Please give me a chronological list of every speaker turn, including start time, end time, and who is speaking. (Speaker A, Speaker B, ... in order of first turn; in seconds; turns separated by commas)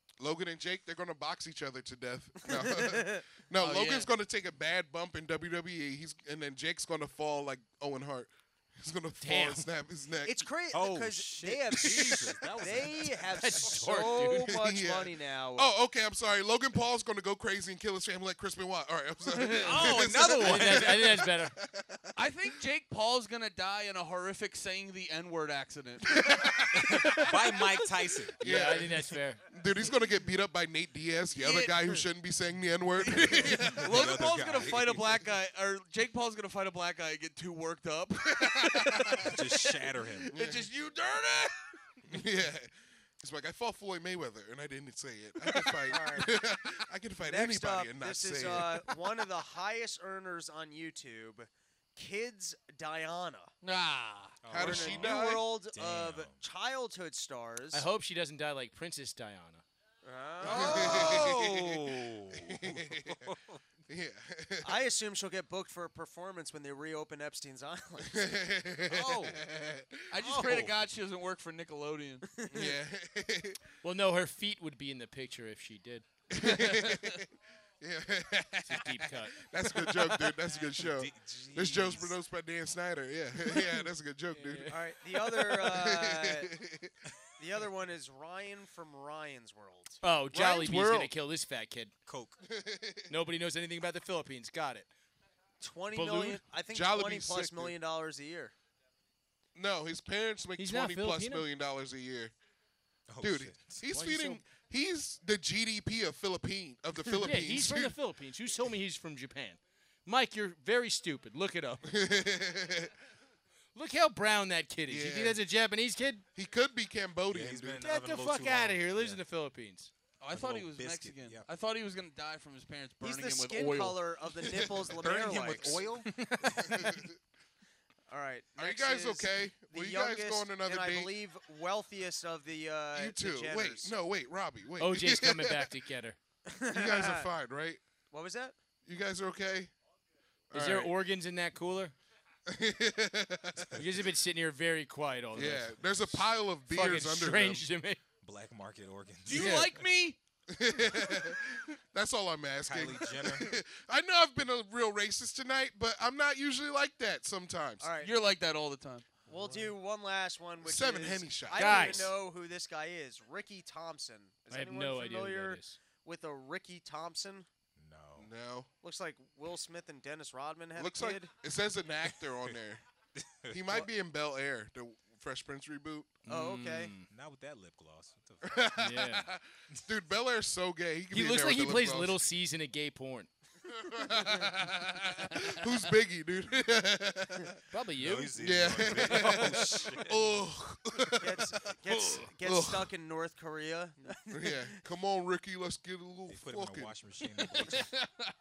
Speaker A: 0.2-10.4, Speaker B: 2.5-3.2, Speaker C: 3.6-4.1, Speaker D: 9.2-9.7, Speaker B: 10.2-15.7, Speaker E: 10.7-13.6, Speaker A: 11.8-12.3, Speaker D: 13.4-14.5, Speaker A: 14.3-22.1, Speaker D: 19.3-21.5, Speaker C: 19.6-20.2, Speaker E: 19.6-21.0, Speaker C: 22.1-26.3, Speaker A: 26.1-27.0, Speaker E: 26.7-28.4, Speaker D: 26.9-27.7, Speaker D: 28.4-29.4, Speaker A: 28.4-34.2, Speaker C: 31.3-32.0, Speaker C: 33.0-39.4, Speaker E: 33.4-35.2, Speaker A: 38.4-39.3, Speaker E: 39.2-40.3, Speaker C: 40.2-41.6, Speaker A: 40.3-40.7, Speaker A: 42.1-49.0, Speaker B: 45.8-46.3, Speaker B: 47.2-53.5, Speaker C: 53.6-54.4, Speaker E: 54.4-56.4, Speaker A: 54.5-55.5, Speaker B: 54.5-57.9, Speaker D: 57.7-59.6, Speaker B: 60.0-61.3, Speaker E: 60.4-63.6, Speaker A: 60.5-63.2, Speaker A: 63.9-64.7, Speaker B: 64.6-68.3, Speaker A: 68.0-70.6, Speaker C: 68.9-69.4, Speaker C: 70.1-72.3, Speaker D: 70.2-70.7, Speaker B: 72.3-72.8, Speaker A: 72.5-73.6, Speaker D: 73.8-76.7, Speaker A: 76.3-77.3, Speaker A: 77.8-86.9, Speaker D: 78.7-79.5, Speaker E: 80.8-82.2, Speaker D: 84.3-84.7, Speaker B: 84.7-86.5, Speaker B: 87.4-90.0, Speaker D: 90.0-91.9, Speaker A: 90.3-91.1, Speaker C: 90.6-90.9, Speaker E: 92.0-92.4, Speaker A: 92.5-93.1, Speaker D: 93.1-94.9, Speaker B: 95.6-98.5, Speaker D: 95.9-96.4, Speaker A: 96.7-97.7, Speaker A: 99.5-102.3, Speaker D: 100.6-101.5, Speaker E: 103.1-104.0, Speaker A: 103.2-107.9, Speaker D: 103.9-104.4, Speaker D: 107.1-111.8, Speaker A: 111.8-112.9, Speaker D: 113.7-116.2, Speaker A: 114.9-115.4, Speaker A: 116.3-117.8, Speaker E: 117.3-119.2, Speaker D: 117.8-119.9, Speaker C: 120.2-124.0, Speaker E: 120.3-121.5, Speaker B: 123.0-125.8, Speaker A: 124.4-124.9, Speaker E: 124.9-126.1, Speaker D: 126.0-127.0, Speaker A: 126.5-127.2, Speaker B: 128.1-133.9, Speaker A: 128.6-131.1, Speaker A: 132.9-135.7, Speaker D: 134.8-136.2, Speaker B: 136.5-137.3, Speaker A: 136.7-137.8, Speaker B: 138.1-138.5, Speaker A: 138.8-139.7, Speaker A: 140.5-140.9, Speaker D: 140.5-141.9, Speaker A: 142.5-143.8, Speaker D: 143.7-148.0, Speaker A: 145.3-147.7, Speaker E: 148.2-149.6, Speaker C: 149.2-150.2, Speaker D: 149.3-149.7, Speaker A: 150.5-157.9, Speaker E: 152.6-153.6, Speaker B: 157.8-158.1, Speaker C: 158.0-159.1, Speaker B: 159.3-167.5, Speaker A: 160.6-162.1, Speaker D: 161.6-162.1, Speaker D: 164.5-165.8, Speaker E: 167.8-168.3, Speaker A: 168.2-168.7, Speaker B: 168.8-171.3, Speaker A: 170.8-172.8, Speaker E: 172.0-172.6, Speaker E: 173.2-173.9, Speaker A: 173.5-176.2, Speaker D: 176.2-177.1, Speaker B: 176.3-176.9, Speaker E: 177.1-178.7, Speaker A: 178.5-182.2, Speaker D: 178.8-179.3, Speaker D: 181.1-183.3, Speaker A: 183.8-187.6, Speaker D: 187.7-188.5, Speaker E: 188.0-190.4, Speaker A: 188.4-192.9, Speaker D: 189.1-189.4, Speaker B: 191.2-194.8, Speaker A: 194.3-196.9, Speaker E: 196.3-197.9, Speaker A: 197.5-197.9